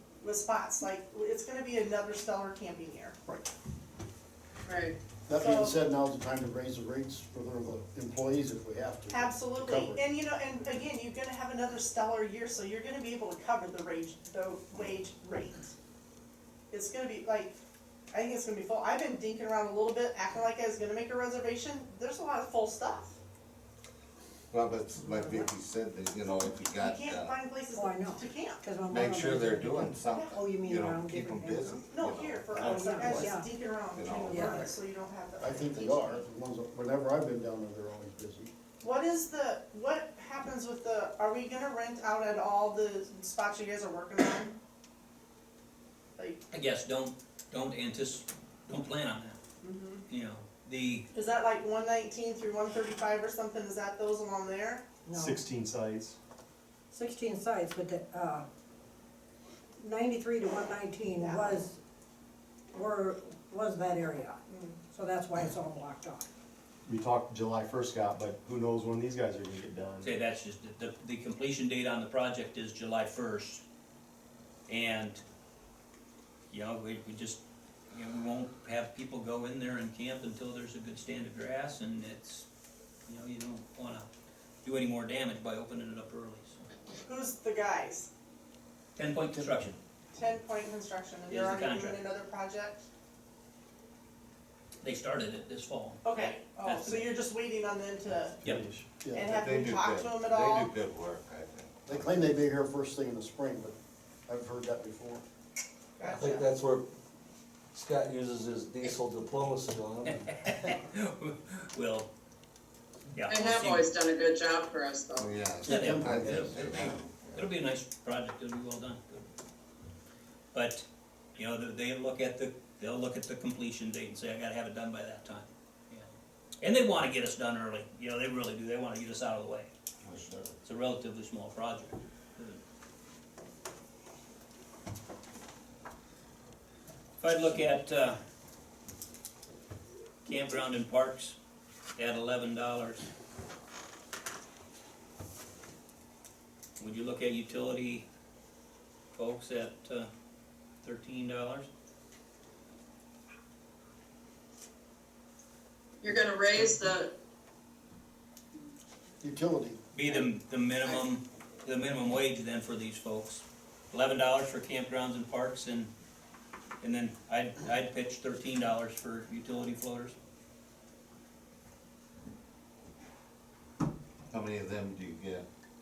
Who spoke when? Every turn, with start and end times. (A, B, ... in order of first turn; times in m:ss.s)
0:00.2-0:03.1 A
0:04.7-0:05.0 B
0:05.3-0:10.0 C
0:05.3-0:05.8 A
0:09.1-0:15.7 A
0:16.7-0:17.5 A
0:18.1-0:23.2 A
0:24.5-0:27.4 D
0:25.0-0:25.3 E
0:26.8-0:28.6 A
0:27.6-0:31.9 E
0:28.9-0:33.3 D
0:30.1-0:30.4 A
0:31.9-0:36.2 A
0:32.5-0:32.8 C
0:32.6-0:33.5 E
0:33.9-0:34.4 D
0:34.2-0:34.7 E
0:35.4-0:38.5 C
0:35.7-0:36.2 D
0:38.8-0:44.6 A
0:46.5-0:49.4 F
0:49.6-0:50.0 A
0:50.1-0:51.1 F
0:51.1-0:54.8 A
0:55.0-0:55.4 E
0:55.1-0:56.2 G
0:56.9-0:58.5 E
0:59.8-1:01.8 E
1:01.2-1:01.6 A
1:02.7-1:06.3 E
1:04.5-1:04.8 A
1:06.8-1:10.1 G
1:10.0-1:13.6 F
1:14.7-1:15.2 F
1:16.5-1:17.4 F
1:17.9-1:22.5 F
1:23.1-1:24.1 F
1:24.6-1:26.6 F
1:27.0-1:28.1 A
1:29.0-1:29.8 F
1:30.1-1:32.8 A
1:31.3-1:32.0 F
1:34.8-1:37.1 F
1:36.0-1:38.4 A
1:38.4-1:38.8 G
1:39.0-1:39.4 C
1:39.1-1:40.7 A
1:39.3-1:42.0 D
1:41.9-1:43.7 C
1:44.3-1:45.2 C
1:46.0-1:46.5 A
1:46.0-1:46.8 H
1:47.7-1:50.3 H
1:50.4-1:52.1 F
1:53.1-1:53.9 F
1:53.3-1:55.3 B
1:55.2-1:57.5 D
1:55.6-1:56.9 C
1:55.7-1:59.2 F
2:00.5-2:00.8 F
2:01.4-2:09.7 F
2:10.0-2:10.5 D
2:10.6-2:12.6 F
2:17.2-2:18.2 F
2:20.2-2:21.4 F
2:22.0-2:23.0 F
2:26.8-2:28.0 F
2:29.1-2:30.1 F
2:30.8-2:31.7 F
2:36.0-2:37.1 B
2:36.5-2:36.8 F
2:39.2-2:40.2 C
2:39.9-2:45.9 F
2:46.8-2:50.1 F
2:54.3-2:55.4 D